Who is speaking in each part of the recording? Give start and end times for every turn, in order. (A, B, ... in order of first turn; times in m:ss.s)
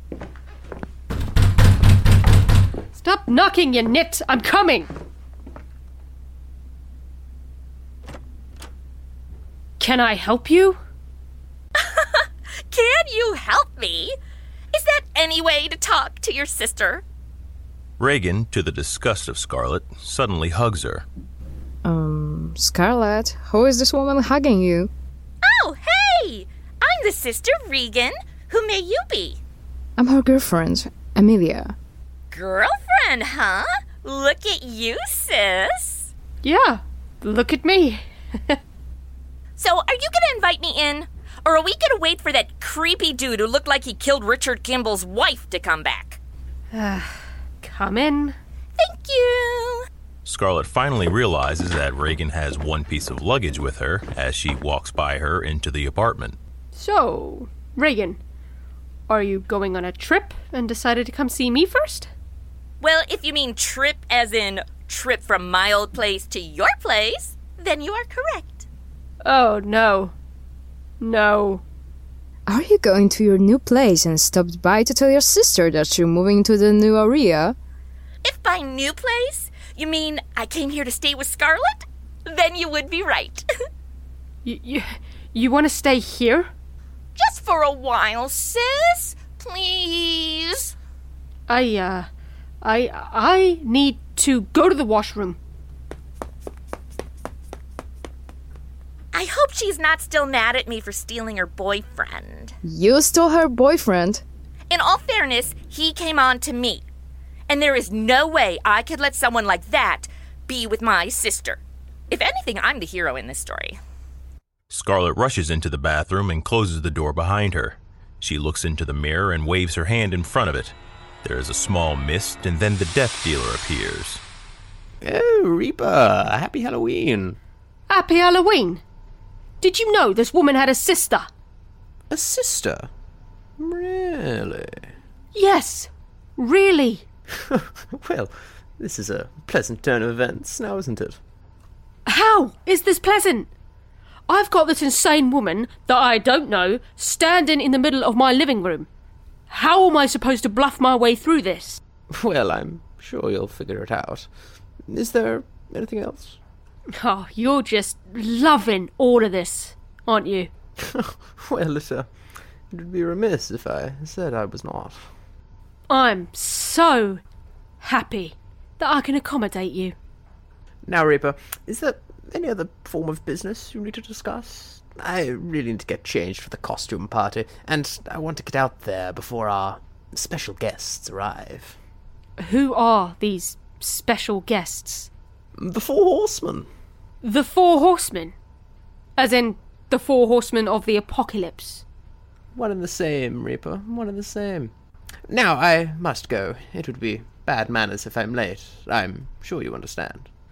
0:03.0-0:04.9 A
0:09.8-0:10.8 A
0:11.8-0:14.2 B
0:14.7-0:17.0 B
0:18.0-0:21.0 C
0:21.8-0:24.9 D
0:25.4-0:29.4 B
0:30.0-0:31.7 D
0:32.3-0:36.1 B
0:36.4-0:38.6 A
0:39.6-0:46.2 B
0:46.7-0:48.4 A
0:48.8-0:49.8 B
0:50.2-0:56.4 C
0:56.7-0:58.2 A
0:59.1-1:02.1 A
1:02.8-1:08.7 B
1:09.2-1:10.2 A
1:11.0-1:11.6 A
1:12.5-1:17.6 D
1:18.2-1:23.5 B
1:24.4-1:26.5 A
1:27.2-1:30.7 B
1:31.5-1:32.1 A
1:32.6-1:35.4 A
1:39.1-1:42.6 B
1:42.6-1:44.2 D
1:44.7-1:46.8 B
1:47.5-1:53.8 B
1:54.7-2:04.2 C
2:05.0-2:07.4 E
2:07.9-2:08.8 A
2:09.6-2:11.3 A
2:12.1-2:12.9 E
2:13.6-2:14.9 E
2:15.3-2:17.0 A
2:17.4-2:21.2 E
2:22.1-2:23.5 A
2:24.3-2:28.9 A
2:29.5-2:31.8 A
2:32.1-2:34.3 E
2:34.9-2:36.4 E
2:36.9-2:40.5 A
2:40.8-2:42.1 E
2:42.7-2:45.1 E
2:45.9-2:47.2 A
2:47.8-2:50.0 A
2:50.9-3:01.8 E
3:02.4-3:05.1 A
3:05.6-3:06.7 E
3:07.2-3:08.4 A
3:09.2-3:11.8 A
3:12.6-3:14.7 E
3:15.3-3:20.3 E